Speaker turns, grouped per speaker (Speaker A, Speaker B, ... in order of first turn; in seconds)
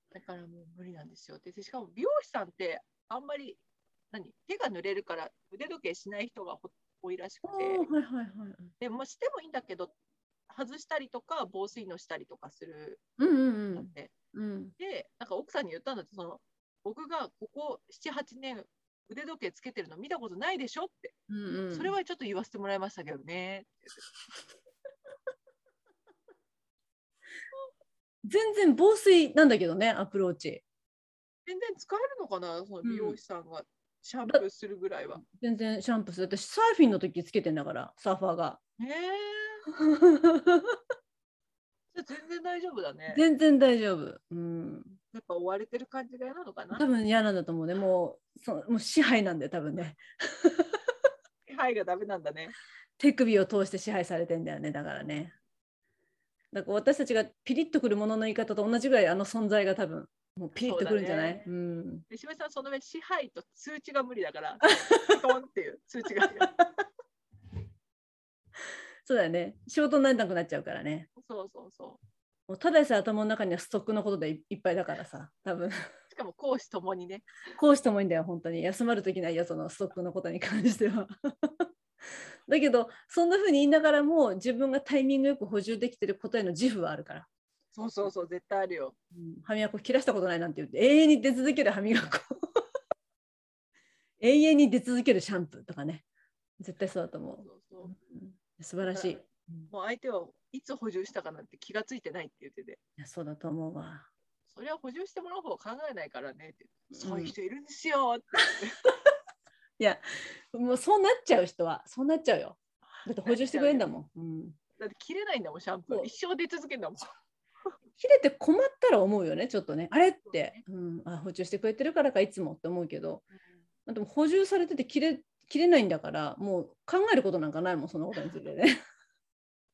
Speaker A: 0.1-7.9, 8.8-9.9, 10.5-13.0, 13.7-14.1, 14.8-21.1, 21.7-24.1, 31.5-35.2, 38.8-39.6, 41.9-43.2, 45.1-46.9, 51.5-52.5, 55.0-55.2, 60.6-61.4, 62.1-66.5, 71.2-72.0, 76.1-77.3, 87.7-89.0, 97.3-97.9, 98.8-102.8, 104.5-108.9, 113.2-113.9, 114.8-117.1, 120.2-120.6
Speaker B: 7.4-8.7, 13.2-14.7, 21.3-21.9, 28.2-30.6, 32.8-33.2, 35.2-38.6, 39.8-40.8, 43.1-45.0, 46.7-50.8, 53.0-55.4, 56.5-62.0, 69.0-71.1, 72.5-75.8, 77.6-81.7, 82.5-87.3, 89.1-92.6, 94.2-96.0, 96.6-99.7, 103.0-104.1, 106.9-107.3, 109.8-114.6, 118.0-123.2, 123.9-128.8